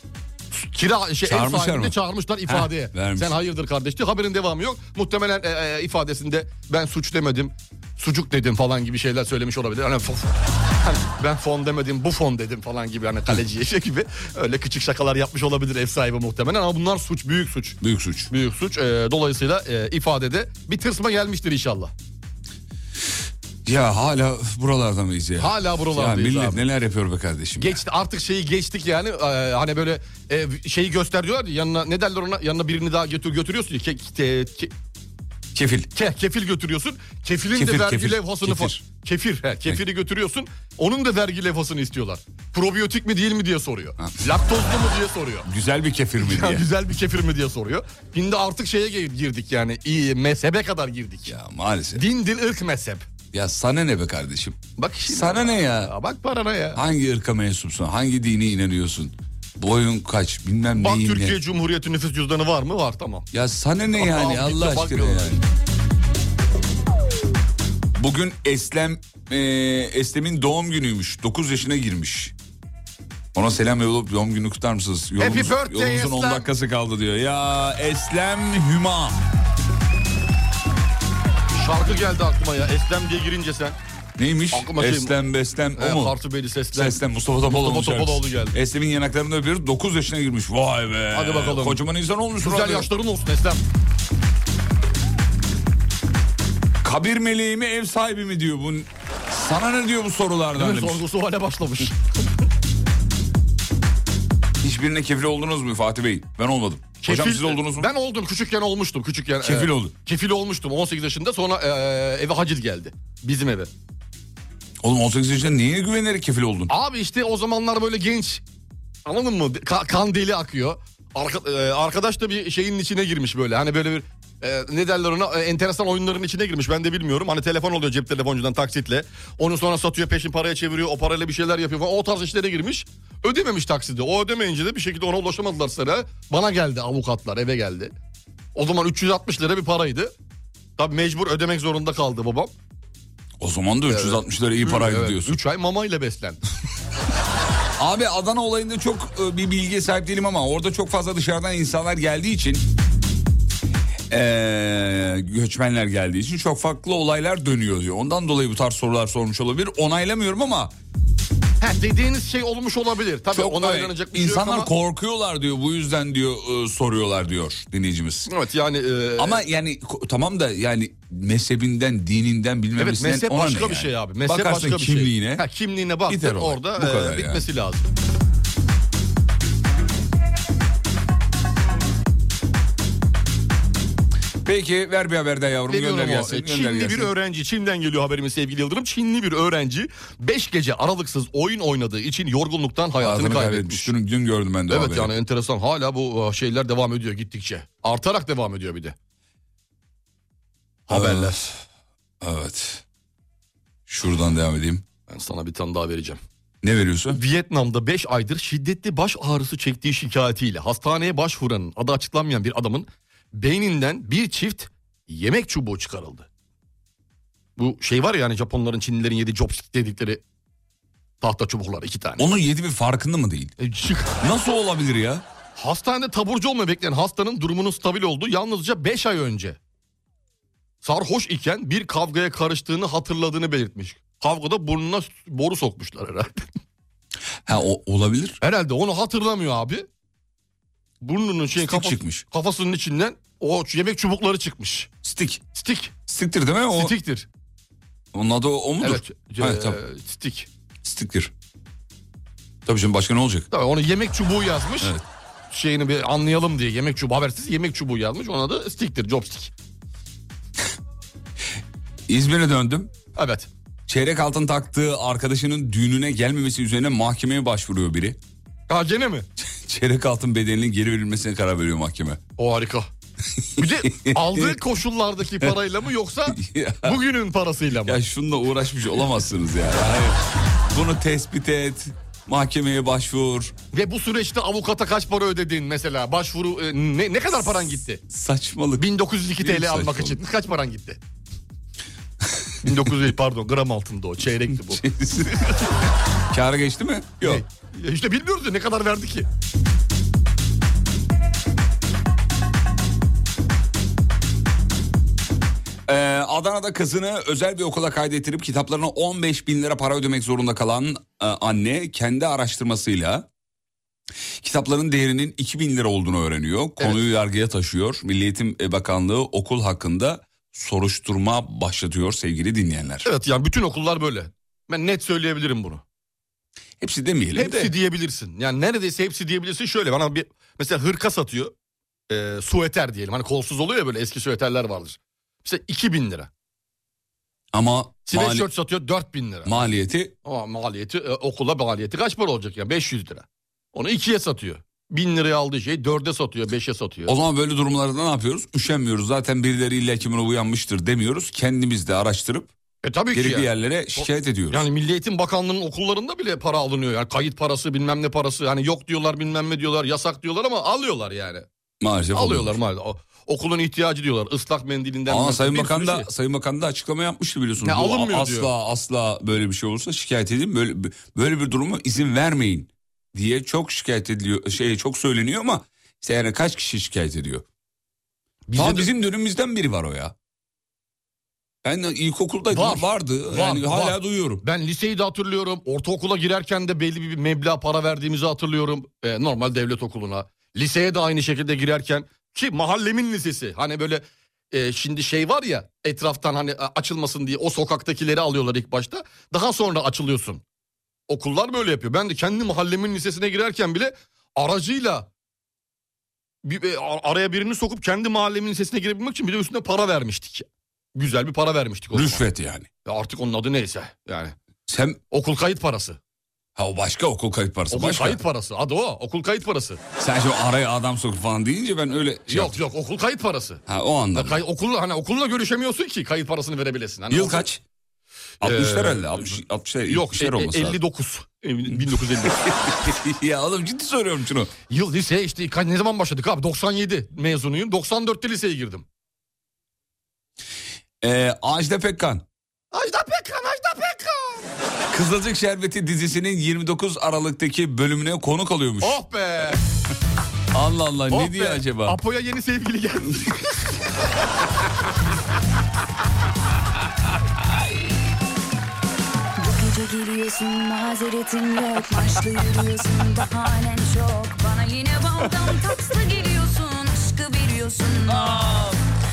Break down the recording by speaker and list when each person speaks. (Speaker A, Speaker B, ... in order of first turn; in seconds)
Speaker A: 0.5-17.8, 18.3-21.9, 25.4-26.6, 27.6-34.7, 35.9-45.5, 46.2-51.3, 51.9-53.1, 54.8-56.8, 60.7-63.3, 64.0-65.4, 75.2-76.5, 81.5-83.8, 84.5-85.1, 85.8-88.6, 91.1-91.8, 92.4-93.6, 100.5-102.1, 107.0-113.7, 116.7-118.4, 119.0-137.9, 138.5-140.1, 140.8-142.5, 143.9-146.4, 161.6-164.7, 168.3-169.4, 172.8-177.9, 185.7-193.9, 194.7-198.9, 200.9-201.5, 205.1-206.2, 207.1-216.3, 217.6-220.2, 221.2-222.2, 223.6-224.1, 225.6-229.6, 230.8-236.5, 238.4-239.9, 241.0-244.9, 245.5-245.9, 246.7-247.3, 248.8-250.5, 253.5-254.9, 255.5-259.5, 263.1-263.5, 268.7-269.3, 272.4-272.9, 273.6-278.0, 283.7-288.0, 288.8-291.0, 292.6-294.8, 297.2-299.3, 323.0-325.8, 327.3-331.5, 332.1-336.3, 338.1-339.7, 340.2-347.1, 352.8-361.4, 362.1-366.1, 367.6-368.5, 378.5-378.9, 382.5-400.4, 401.1-405.1, 406.4-412.2, 412.8-414.3, 415.1-416.0, 417.7-419.8, 422.3-423.6, 424.1-427.4, 428.4-429.3, 429.9-432.5, 434.7-438.8, 442.7-444.5, 448.8-449.6, 451.1-453.7
Speaker B: 1.2-3.4, 17.8-18.3, 23.6-27.8, 35.5-35.9, 37.5-38.8, 45.4-46.6, 51.3-52.0, 53.3-55.9, 56.7-61.4, 63.3-65.4, 67.9-72.3, 73.3-79.2, 84.2-86.2, 86.7-92.9, 96.8-101.0, 104.6-107.9, 109.4-109.9, 114.8-116.7, 143.4-145.4, 147.8-152.6, 154.1-160.7, 163.3-168.3, 169.2-175.4, 176.1-177.4, 184.4-187.1, 193.0-195.1, 200.9-201.5, 202.2-202.8, 203.9-204.8, 206.6-207.2, 222.2-223.5, 224.2-225.2, 237.4-238.4, 241.6-242.2, 245.0-245.4, 246.1-246.9, 248.1-249.8, 250.8-251.3, 252.7-253.5, 262.1-262.9, 263.9-268.2, 269.4-272.2, 273.6-274.6, 276.3-277.0, 277.8-280.2, 280.7-283.5, 288.1-290.2, 294.5-295.7, 296.3-297.4, 305.9-313.3, 314.4-323.1, 326.8-327.7, 337.5-338.5, 339.4-340.1, 347.1-352.5, 353.1-354.6, 361.8-362.6, 365.1-377.4, 378.5-380.1, 381.6-384.4, 411.9-412.7, 414.7-415.0, 416.6-418.2, 420.0-422.6, 423.7-424.4, 427.1-427.6, 428.4-430.8, 431.7-434.5, 441.0-442.2, 444.9-449.0, 450.5-452.0, 468.1-468.8
Speaker C: 459.4-468.7